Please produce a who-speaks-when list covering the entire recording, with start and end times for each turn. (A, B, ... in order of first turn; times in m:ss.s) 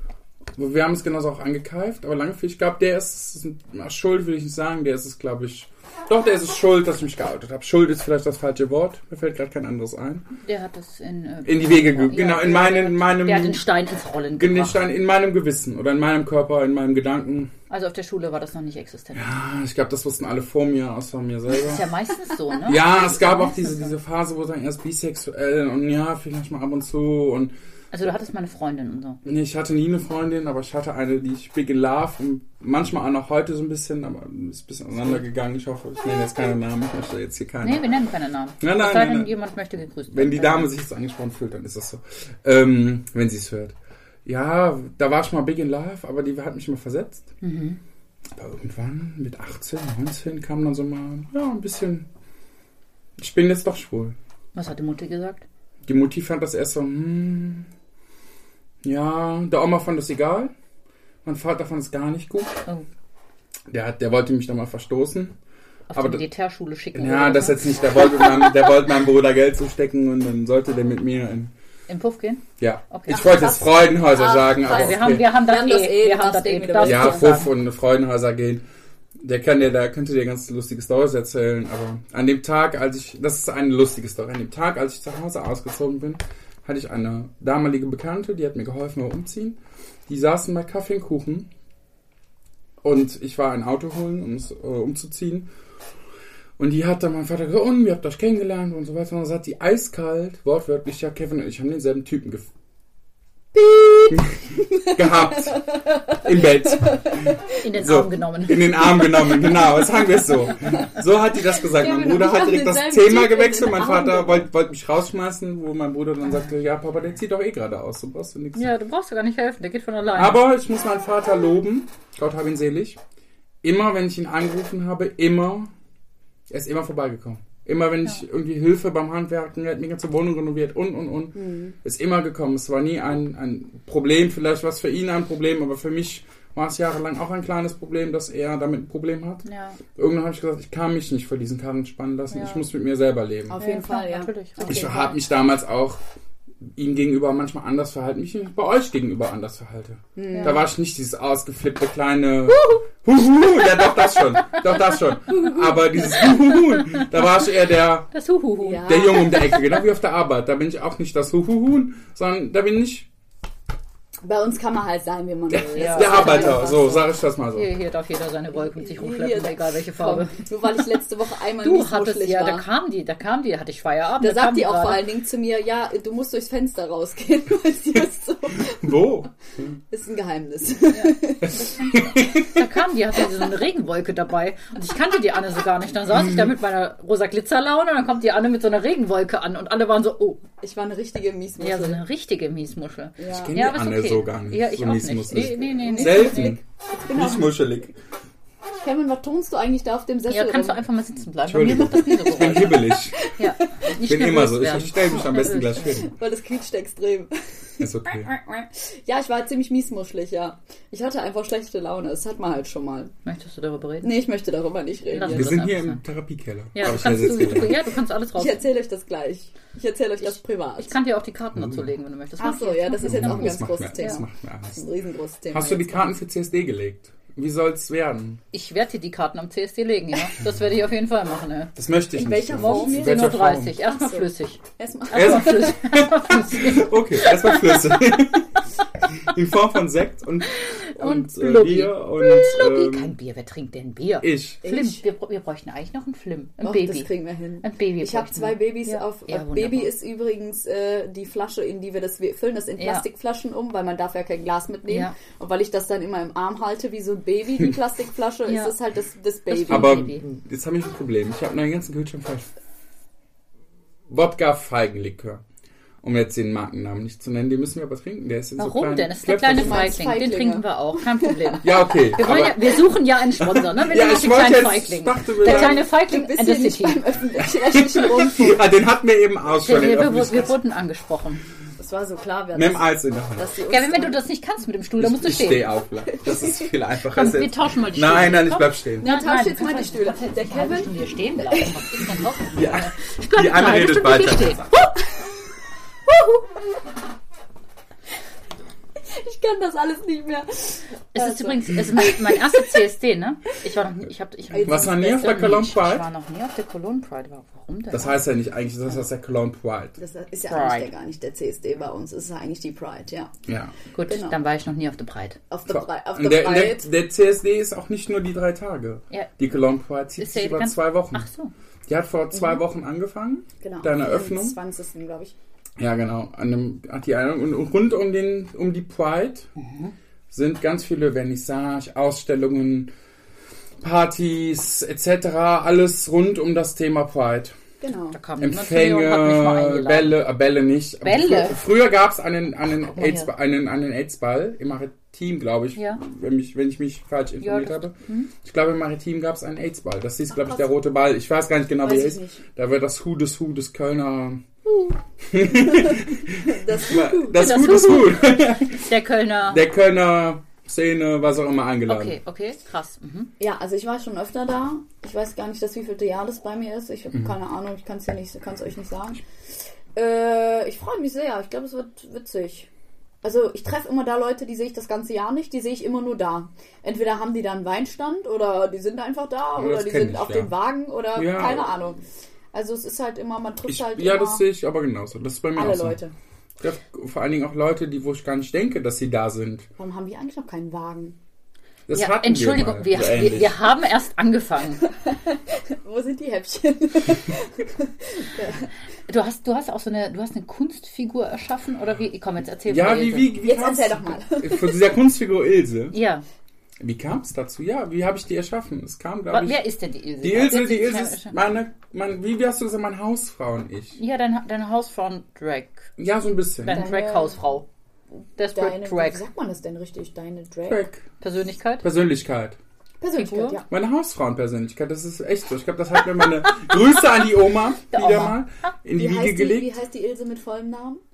0:00.6-0:10.3 A
0:10.4-0:14.8 B
0:11.4-0:13.6 A
0:14.4-0:17.5 A
0:17.7-0:19.3 B
0:19.2-0:21.8 A
0:21.6-0:24.0 B
0:22.7-0:27.5 A
0:27.9-0:29.2 B
0:29.2-0:37.9 A
0:37.6-0:40.7 B
0:38.6-0:39.4 A
0:40.1-0:47.3 A
0:47.4-0:47.8 B
0:48.3-0:52.1 A
0:53.2-0:54.2 A
0:54.6-0:55.4 B
0:55.8-0:57.7 A
0:58.8-1:00.5 A
1:01.2-1:02.6 A
1:03.7-1:05.4 A
1:05.9-1:07.6 B
1:05.9-1:06.2 A
1:06.9-1:11.5 A
1:11.9-1:13.2 B
1:12.6-1:15.3 A
1:13.1-1:17.4 C
1:14.6-1:17.5 B
1:16.8-1:18.6 A
1:19.2-1:31.5 A
1:32.8-1:35.5 A
1:36.6-1:42.5 A
1:43.5-1:47.6 C
1:44.1-1:58.7 A
1:47.6-1:48.9 B
1:49.0-1:50.9 C
1:51.4-1:54.5 C
1:58.6-2:00.4 B
2:00.2-2:03.0 A
2:03.6-2:05.7 A
2:06.5-2:23.6 A
2:11.4-2:11.8 C
2:19.4-2:19.8 B
2:22.3-2:22.6 B
2:23.5-2:24.9 C
2:23.6-2:25.2 B
2:24.7-2:26.0 A
2:26.6-2:38.1 A
2:30.2-2:30.6 C
2:32.5-2:32.8 B
2:35.3-2:37.1 B
2:35.4-2:35.8 C
2:38.1-2:39.6 B
2:38.6-2:39.6 C
2:38.8-2:43.1 A
2:44.2-2:47.0 C
2:45.5-2:47.7 A
2:45.7-2:50.4 B
2:48.6-2:52.6 C
2:51.6-2:55.0 B
2:54.2-2:59.0 C
2:58.6-2:59.8 A
2:59.9-3:01.6 C
3:00.9-3:10.4 B
3:01.4-3:02.6 A
3:10.6-3:12.0 C
3:11.6-3:16.6 B
3:13.2-3:13.6 C
3:13.3-3:16.6 A
3:15.5-3:17.8 C
3:17.1-3:18.0 A
3:18.8-3:20.8 C
3:20.3-3:26.0 B
3:21.5-3:23.2 A
3:22.4-3:23.3 C
3:24.0-3:26.2 A
3:26.0-3:33.1 C
3:27.8-3:28.3 A
3:33.2-3:34.1 B
3:34.0-3:35.6 C
3:35.1-3:36.0 B
3:35.3-3:37.8 A
3:36.8-3:38.6 B
3:38.4-3:41.0 C
3:40.2-3:44.2 B
3:41.5-3:41.9 A
3:42.4-3:46.1 C
3:43.0-3:44.8 A
3:45.5-3:48.4 A
3:48.5-3:51.7 B
3:51.8-3:53.8 A
3:52.1-3:55.8 C
3:52.6-3:58.0 B
3:55.1-4:03.1 A
4:00.7-4:07.1 B
4:04.2-4:04.6 A
4:04.6-4:05.0 C
4:06.6-4:20.1 C
4:07.6-4:09.9 B
4:12.8-4:13.0 B
4:14.9-4:15.2 B
4:18.5-4:18.8 B
4:19.5-4:20.3 B
4:19.7-4:22.5 A
4:24.1-4:25.4 A
4:26.0-4:29.9 A
4:28.6-4:37.0 B
4:29.5-4:31.6 C
4:31.6-4:32.8 A
4:33.4-4:35.8 A
4:35.4-4:38.6 C
4:37.4-4:40.6 A
4:39.6-4:41.4 B
4:41.8-4:44.2 C
4:42.6-4:43.5 A
4:43.7-4:45.7 B
4:45.0-4:49.0 A
4:46.1-4:46.7 C
4:47.1-4:54.6 B
4:49.0-4:50.9 C
4:51.4-4:52.1 C
4:52.5-4:54.7 A
4:54.8-4:55.3 C
4:56.1-4:56.6 C
4:59.0-5:02.8 C
5:01.1-5:08.3 B
5:04.6-5:04.9 C
5:04.6-5:06.1 A
5:07.9-5:10.0 A
5:10.0-5:13.3 C
5:10.5-5:10.9 B
5:13.5-5:13.7 A
5:14.0-5:15.4 B
5:14.1-5:14.3 C
5:15.5-5:16.9 C
5:15.7-5:21.3 A
5:20.2-5:21.5 B
5:21.9-5:24.6 A
5:22.3-5:22.6 C
5:23.6-5:25.4 C
5:25.8-5:29.5 A
5:29.6-5:29.9 B
5:30.3-5:32.9 A
5:33.8-5:37.6 A
5:37.8-5:38.2 C
5:38.1-5:40.2 B
5:38.4-5:54.4 A
5:41.0-5:41.6 B
5:42.9-5:43.3 B
5:47.4-5:48.3 B
5:50.3-5:50.7 C
5:51.8-5:52.4 C
5:55.2-5:58.9 A
5:55.5-5:58.0 C
5:57.4-5:59.6 B
5:59.5-6:02.2 A
6:01.9-6:03.3 B
6:03.4-6:09.2 C
6:10.0-6:12.7 C
6:13.2-6:22.0 C
6:19.6-6:20.5 A
6:21.2-6:21.7 A
6:22.5-6:24.4 C
6:23.7-6:26.0 A
6:25.6-6:26.1 C
6:26.6-6:29.7 A
6:29.8-6:31.2 C
6:31.9-6:33.6 A
6:31.9-6:34.8 B
6:35.1-6:38.7 C
6:39.1-6:43.3 B
6:42.7-6:46.0 A
6:43.3-6:44.8 C
6:45.9-6:46.2 B
6:46.8-6:49.6 A
6:49.3-6:51.4 B
6:50.2-6:54.0 A
6:54.0-6:55.9 B
6:56.0-6:56.8 A
6:56.6-6:57.7 B
6:56.7-6:57.4 C
6:58.4-6:59.2 B
6:58.5-7:00.8 C
7:00.7-7:01.0 A
7:01.2-7:01.8 B
7:01.8-7:02.6 A
7:03.0-7:03.7 C
7:03.2-7:03.6 B
7:03.7-7:09.8 A
7:07.9-7:08.4 B
7:09.0-7:11.0 C